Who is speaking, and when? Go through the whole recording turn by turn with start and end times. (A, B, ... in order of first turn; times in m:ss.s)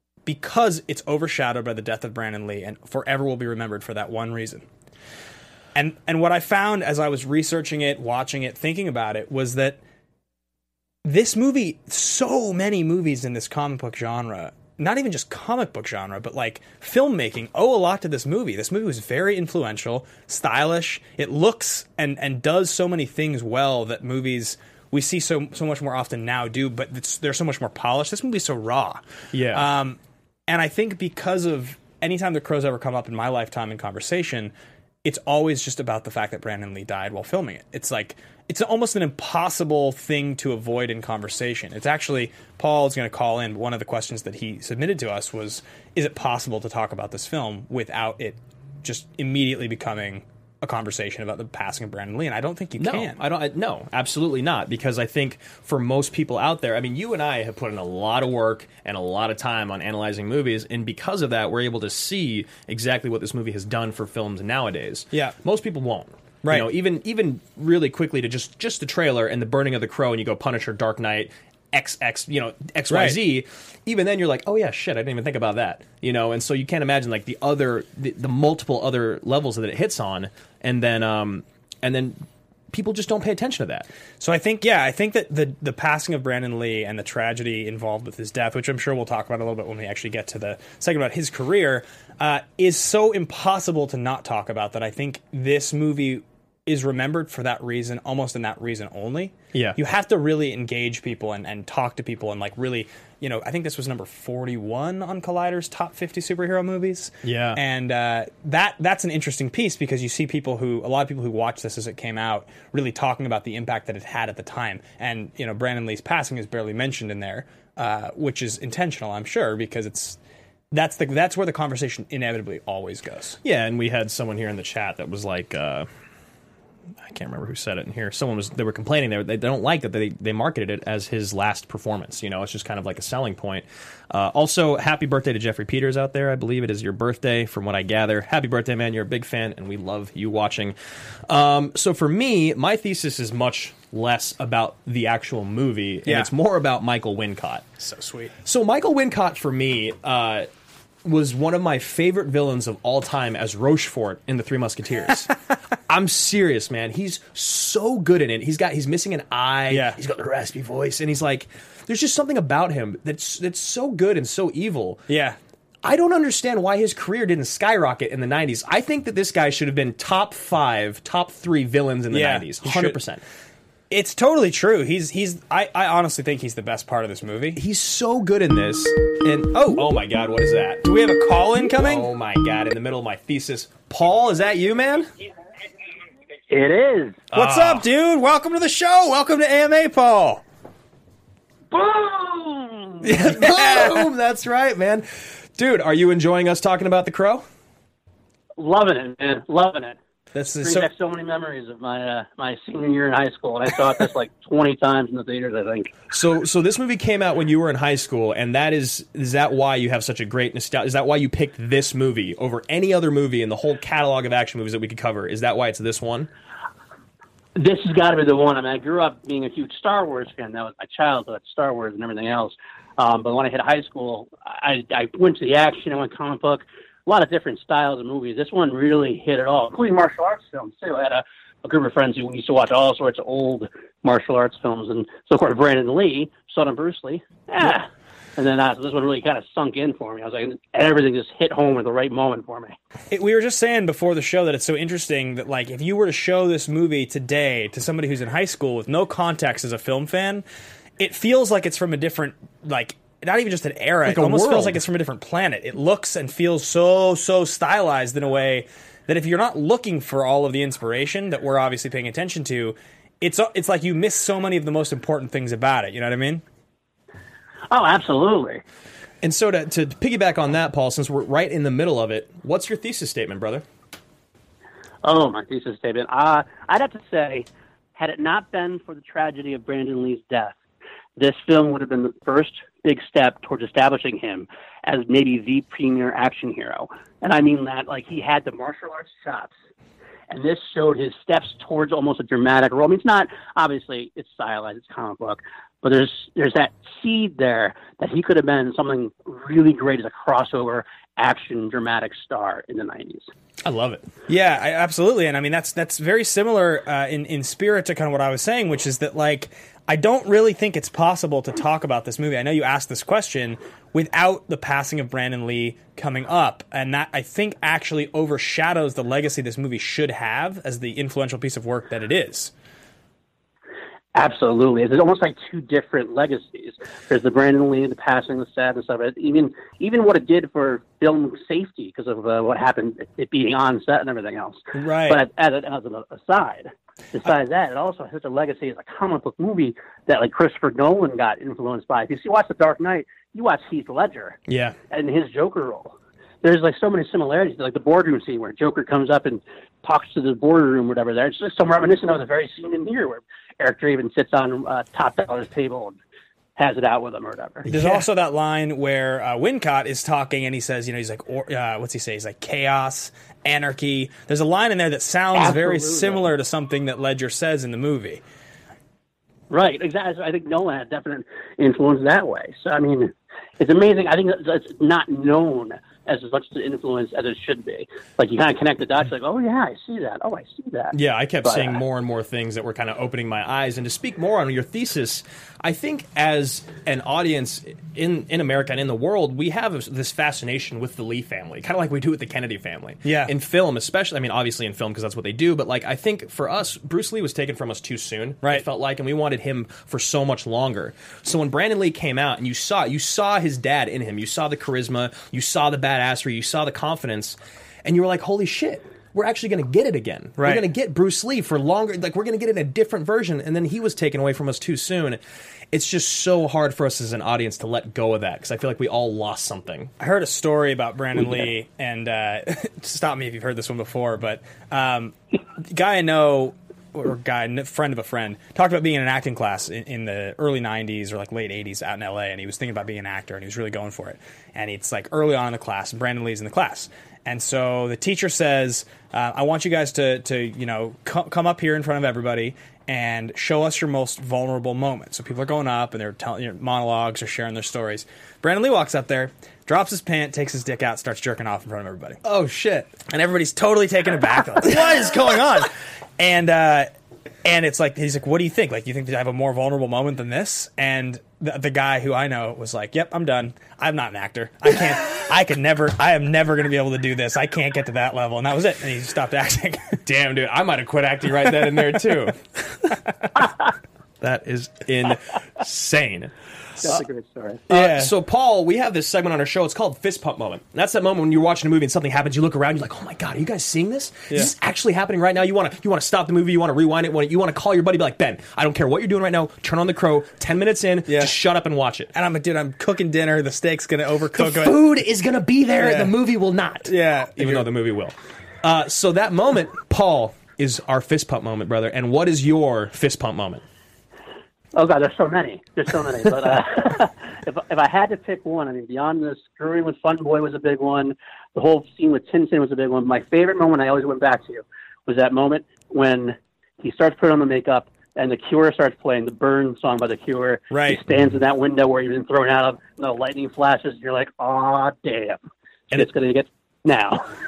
0:00.3-0:04.7 A
0:05.8-0:09.8 A
0:11.0-0:34.5 A
0:29.3-0:29.7 B
0:35.0-0:53.2 A
0:52.8-1:23.9 B
1:06.4-1:06.7 A
1:12.9-1:13.2 A
1:24.2-2:00.2 A
1:39.5-1:39.8 B
1:47.2-1:47.6 B
2:00.7-2:03.4 A
2:03.4-2:05.9 B
2:07.0-2:20.8 B
2:21.3-2:27.7 B
2:27.8-2:28.3 A
2:28.4-2:30.5 B
2:31.0-2:35.3 B
2:35.9-2:45.0 B
2:39.7-2:40.0 A
2:45.1-2:45.4 A
2:45.8-2:53.2 B
2:52.1-2:53.0 A
2:53.9-2:57.6 A
2:57.6-3:00.8 B
3:00.8-3:02.1 A
3:01.6-3:05.1 B
3:06.5-3:07.2 C
3:07.3-3:07.8 B
3:07.3-3:10.4 A
3:11.7-3:13.1 C
3:13.0-3:17.4 B
3:13.3-3:13.9 A
3:18.6-3:20.0 C
3:20.3-3:20.9 A
3:20.6-3:26.0 C
3:26.1-3:36.3 B
3:37.6-4:02.8 C
4:03.1-4:10.4 A
4:11.0-4:26.4 A
4:14.0-4:14.8 B
4:27.7-4:28.6 C
4:29.2-4:33.6 B
4:35.0-4:40.6 C
4:41.2-4:49.5 C
4:50.3-5:03.3 C
5:03.6-5:04.0 B
5:04.3-5:22.5 A
5:24.2-5:44.4 C
5:34.7-5:35.2 A
5:44.5-5:44.8 B
5:44.9-5:56.0 C
5:56.6-5:57.7 C
5:57.7-5:58.1 B
5:57.7-6:08.2 A
6:05.3-6:06.3 C
6:09.5-6:21.8 C
6:20.9-6:55.2 B
6:33.0-6:33.3 A
6:50.4-6:50.7 A
6:55.7-6:59.9 B
7:00.0-7:32.2 A
7:32.2-7:32.9 B
7:33.1-7:36.9 A
7:37.4-7:50.0 A
7:50.0-7:52.9 B
7:54.2-7:56.3 B
7:56.8-7:57.6 C
7:57.7-8:12.1 B
7:57.7-7:58.1 A
8:11.1-8:11.4 A
8:12.1-8:14.9 A
8:14.3-8:23.6 B
8:15.8-8:16.1 A
8:16.8-8:17.7 A
8:24.7-8:45.4 C
8:40.7-8:41.0 A
8:45.9-8:47.3 C